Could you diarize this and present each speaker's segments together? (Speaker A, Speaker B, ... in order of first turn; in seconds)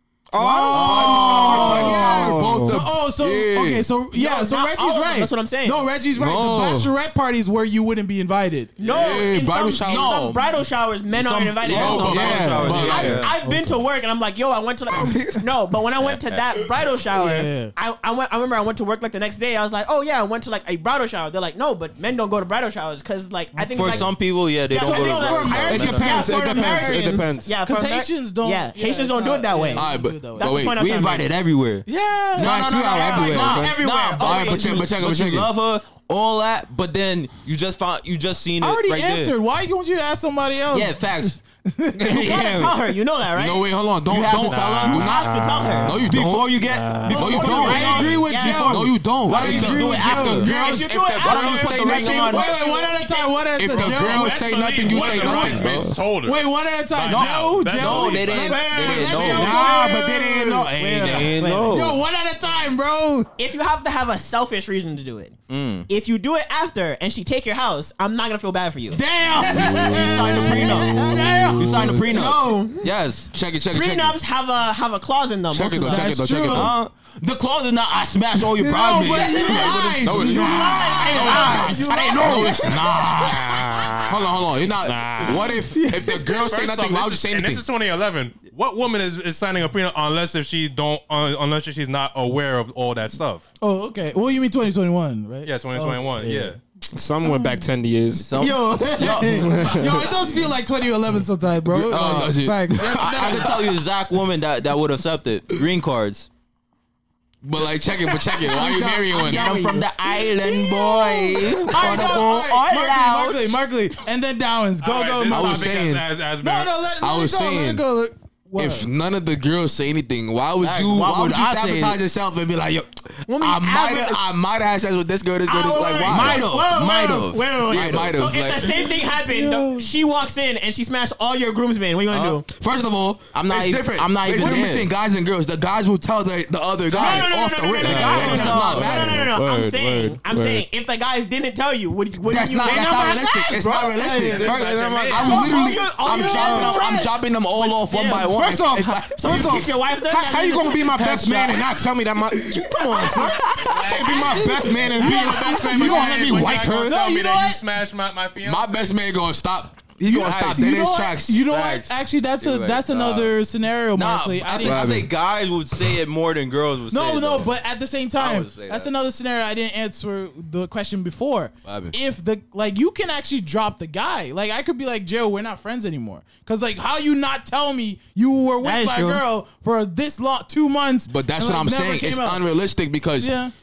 Speaker A: 0.3-2.8, 11.8-13.1, 25.6-27.5, 32.4-33.8, 42.0-42.7, 45.3-47.2, 55.5-55.9, 59.3-62.0, 81.2-84.3, 84.8-85.6, 96.9-98.3, 99.0-100.0, 137.8-140.6, 142.6-143.5, 146.3-146.8, 148.2-157.0
Speaker B: 0.4-8.7, 13.4-13.8, 17.1-17.7, 23.5-24.0, 24.7-26.2, 27.5-30.5, 31.9-32.5, 38.6-42.4, 47.1-50.5, 52.0-55.6, 56.2-63.3, 68.9-72.0, 75.8-76.7, 78.5-82.4, 85.7-86.2, 93.6-96.5, 97.2-97.6, 98.5-103.8, 108.4-115.7, 116.4-118.9, 128.6-129.9, 155.0-156.2, 156.7-157.6, 160.1-164.8, 166.9-182.4, 183.2-183.5
Speaker C: 0.6-3.9, 6.1-6.9, 8.8-10.2, 11.7-13.2, 14.9-15.4, 29.7-30.8, 34.2-35.5, 43.3-52.4, 53.6-55.9, 69.7-70.0, 70.9-72.0, 73.3-74.2, 75.5-76.8, 80.0-87.7, 101.7-103.7, 107.4-109.8, 115.3-116.1, 117.0-117.8, 118.6-126.5, 127.7-128.7, 132.4-139.3, 142.2-149.7, 152.8-153.3, 158.4-161.4, 164.6-165.1, 171.6-171.9, 181.1-183.3
Speaker D: 0.7-2.0, 9.9-10.5, 11.1-13.3, 16.0-16.4, 23.7-26.3, 30.7-39.3, 40.7-41.4, 42.0-42.4, 44.1-45.1, 46.0-50.6, 51.2-52.5, 57.0-59.6, 65.5-65.9, 69.6-73.3, 76.4-80.2, 98.1-100.3, 101.9-106.3, 109.1-113.6, 120.6-122.0, 126.0-128.1, 132.1-132.4, 133.3-134.9, 136.9-137.2, 137.8-139.0, 144.4-145.5, 160.0-160.7, 161.4-163.3, 163.9-167.6, 168.2-168.9
Speaker E: 4.1-5.8, 8.8-31.3, 32.8-34.9, 42.0-43.6, 44.7-46.0, 47.1-48.9, 50.4-53.8, 58.3-59.8, 60.9-61.8, 63.4-65.4, 65.9-69.0, 70.4-71.3, 72.1-72.9, 73.7-76.6, 79.2-79.7, 80.2-82.5, 98.4-99.4, 108.6-109.7, 123.3-124.2, 125.5-132.4, 136.9-144.5, 145.1-148.3, 149.1-151.5, 152.9-153.2, 178.6-179.2
Speaker F: 44.5-44.8, 53.7-56.4, 56.9-58.6, 86.1-93.5, 95.4-96.6, 114.8-116.9, 144.3-145.4, 153.6-159.0